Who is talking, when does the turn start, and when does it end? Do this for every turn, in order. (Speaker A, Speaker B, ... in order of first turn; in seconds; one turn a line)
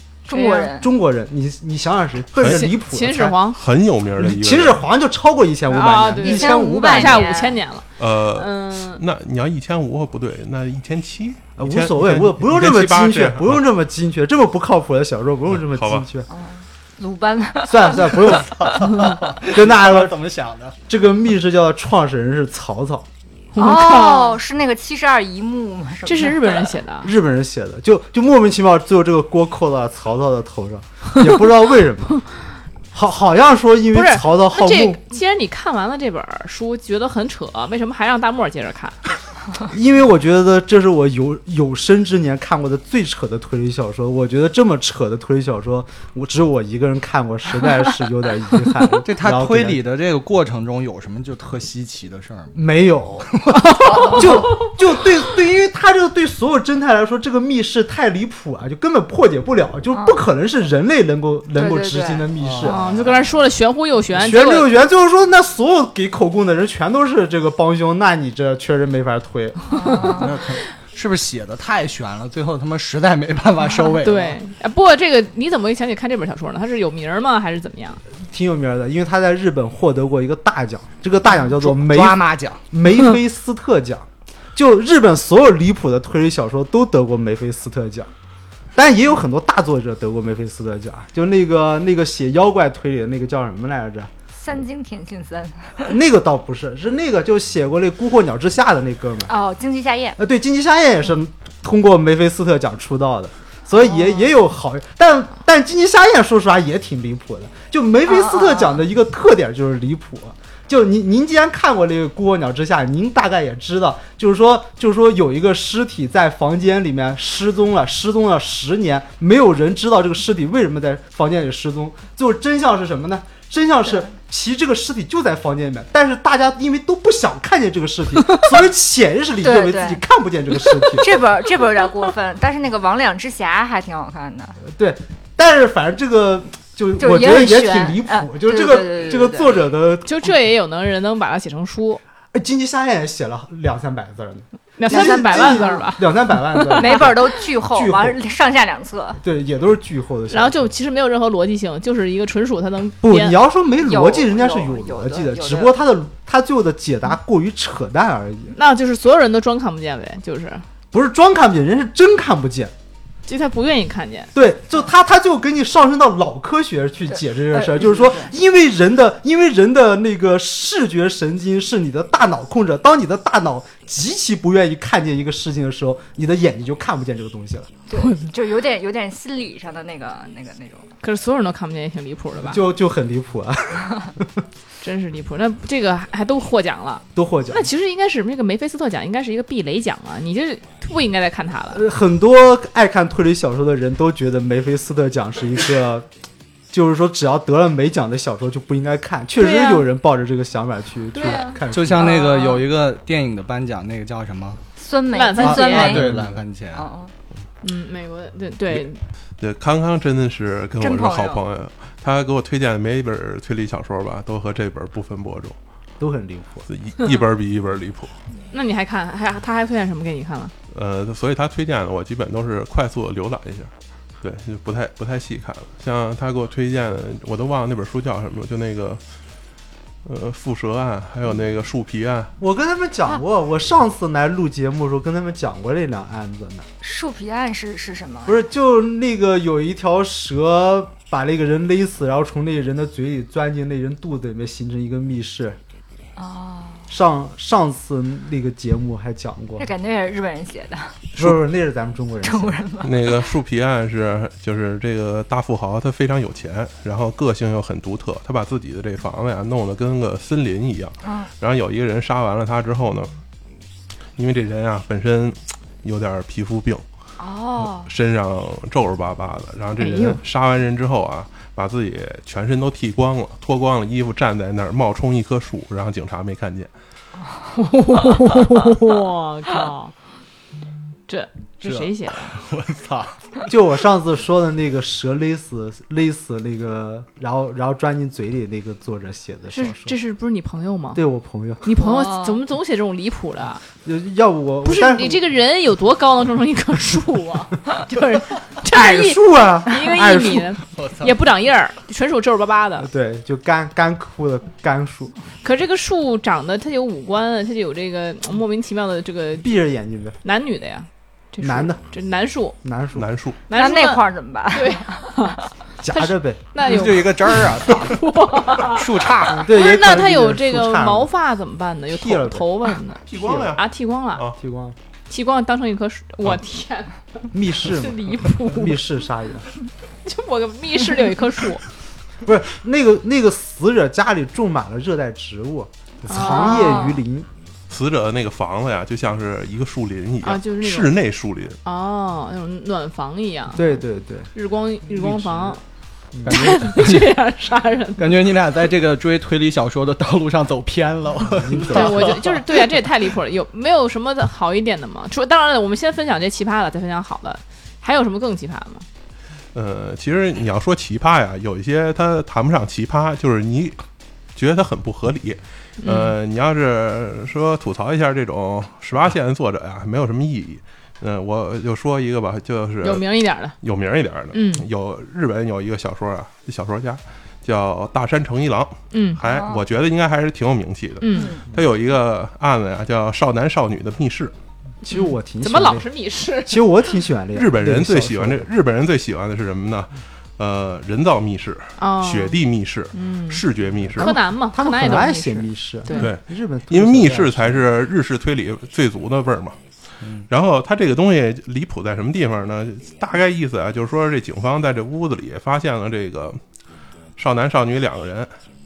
Speaker A: 0.3-0.9
Speaker B: 0.3-0.7
Speaker C: 0.8-3.4
Speaker D: 2.4-2.7
Speaker B: 2.4-3.6
Speaker D: 3.5-4.8
Speaker C: 4.2-7.3
Speaker B: 5.7-9.0
Speaker A: 6.2-7.6
Speaker D: 8.0-13.6
Speaker C: 11.6-16.3
Speaker D: 15.6-16.1
Speaker A: 16.3-18.5
Speaker C: 17.7-20.2
Speaker E: 18.3-20.8
Speaker C: 20.9-23.1
Speaker B: 23.5-24.4
Speaker A: 23.6-26.7
Speaker B: 26.0-27.1
Speaker C: 27.0-32.2
Speaker C: 32.9-35.0
Speaker B: 33.9-39.1
Speaker C: 39.7-49.8
Speaker E: 49.0-52.6
Speaker C: 52.5-53.4
Speaker E: 53.3-54.3
Speaker B: 53.6-54.2
Speaker C: 53.9-62.9
Speaker A: 61.5-62.3
Speaker E: 62.4-63.3
Speaker B: 62.6-64.7
Speaker C: 64.1-69.8
Speaker A: 69.7-70.4
Speaker E: 70.0-74.4
Speaker B: 74.0-78.0
Speaker C: 78.2-88.1
Speaker E: 81.4-82.6
Speaker C: 88.8-94.1
Speaker A: 94.3-95.9
Speaker C: 95.9-99.3
Speaker A: 99.3-100.2
Speaker C: 100.2-131.3
Speaker A: 103.8-104.3
Speaker A: 108.1-108.8
Speaker A: 129.4-130.0
Speaker A: 130.8-134.6
Speaker C: 134.6-140.3
Speaker A: 137.0-139.6
Speaker B: 140.1-142.0
Speaker C: 142.3-148.2
Speaker B: 144.8-147.1
Speaker A: 144.9-145.9
Speaker A: 146.8-149.2
Speaker C: 149.2-150.7
Speaker B: 150.3-153.4
Speaker C: 153.0-158.6
Speaker A: 153.8-155.8
Speaker B: 158.5-160.7
Speaker C: 160.9-162.7
Speaker B: 163.3-164.3
Speaker C: 164.3-177.7
Speaker A: 167.5-168.3
Speaker A: 177.9-180.9
Speaker B: 177.9-178.3
Speaker B: 181.0-182.6
Speaker C: 182.4-184.4
Speaker B: 184.8-191.8
Speaker C: 187.1-187.7
Speaker C: 191.7-196.1
Speaker C: 196.7-202.2
Speaker B: 199.4-199.9
Speaker B: 201.2-202.4
Speaker E: 201.7-204.6
Speaker A: 202.2-202.6
Speaker A: 204.8-206.2
Speaker B: 205.1-206.0
Speaker E: 205.4-206.9
Speaker C: 205.4-206.4
Speaker A: 206.7-207.1
Speaker B: 207.6-209.0
Speaker D: 209.4-215.6
Speaker A: 210.8-211.4
Speaker C: 216.0-216.7
Speaker D: 216.7-218.1
Speaker B: 218.5-220.5
Speaker D: 220.7-229.0
Speaker D: 230.1-232.3
Speaker C: 232.4-236.7
Speaker A: 236.8-238.4
Speaker C: 238.3-245.6
Speaker A: 246.2-246.9
Speaker C: 246.9-249.7
Speaker A: 249.6-251.1
Speaker C: 251.2-252.6
Speaker A: 252.2-253.3
Speaker D: 252.8-263.1
Speaker A: 261.0-261.3
Speaker D: 264.2-266.8
Speaker A: 267.2-267.9
Speaker D: 267.6-276.7
Speaker B: 269.8-270.2
Speaker A: 277.2-277.5
Speaker B: 277.6-279.9
Speaker B: 281.1-282.4
Speaker E: 281.7-283.5
Speaker C: 283.5-290.0
Speaker B: 289.5-291.0
Speaker C: 290.9-291.6
Speaker B: 291.6-293.6
Speaker A: 291.8-292.4
Speaker C: 293.8-295.2
Speaker B: 294.6-302.9
Speaker C: 298.7-300.6
Speaker E: 300.7-301.2
Speaker C: 302.8-305.1
Speaker B: 305.4-309.5
Speaker C: 309.4-310.2
Speaker B: 310.2-312.6
Speaker C: 311.4-311.8
Speaker C: 312.6-313.1
Speaker D: 312.9-313.4
Speaker B: 313.5-323.0
Speaker A: 313.5-315.4
Speaker C: 315.8-316.4
Speaker E: 316.6-319.5
Speaker C: 319.3-321.1
Speaker C: 321.9-323.6
Speaker D: 323.1-324.4
Speaker B: 323.6-324.2
Speaker C: 324.4-324.8
Speaker B: 325.1-326.9
Speaker C: 327.3-329.5
Speaker B: 327.5-328.8
Speaker B: 330.1-331.6
Speaker C: 332.2-337.3
Speaker B: 336.1-336.9
Speaker A: 336.2-337.0
Speaker D: 337.7-341.6
Speaker B: 340.2-340.9
Speaker B: 341.6-343.8
Speaker C: 343.5-344.3
Speaker B: 344.3-345.6
Speaker C: 344.9-345.6
Speaker E: 346.3-347.2
Speaker B: 346.3-348.1
Speaker E: 348.0-352.8
Speaker C: 351.4-352.1
Speaker B: 351.6-358.9
Speaker D: 359.5-363.8
Speaker D: 364.4-373.1
Speaker B: 365.8-366.1
Speaker B: 372.8-373.6
Speaker D: 373.6-384.3
Speaker B: 374.3-374.7
Speaker B: 378.9-379.2
Speaker A: 379.2-379.6
Speaker B: 381.0-381.4
Speaker A: 381.1-381.5
Speaker C: 384.8-385.9
Speaker B: 384.9-386.9
Speaker C: 386.5-388.5
Speaker D: 387.3-394.1
Speaker B: 391.8-392.4
Speaker B: 392.9-393.4
Speaker C: 393.9-397.6
Speaker B: 394.0-396.1
Speaker D: 395.9-399.6
Speaker D: 400.3-406.4
Speaker D: 407.2-408.3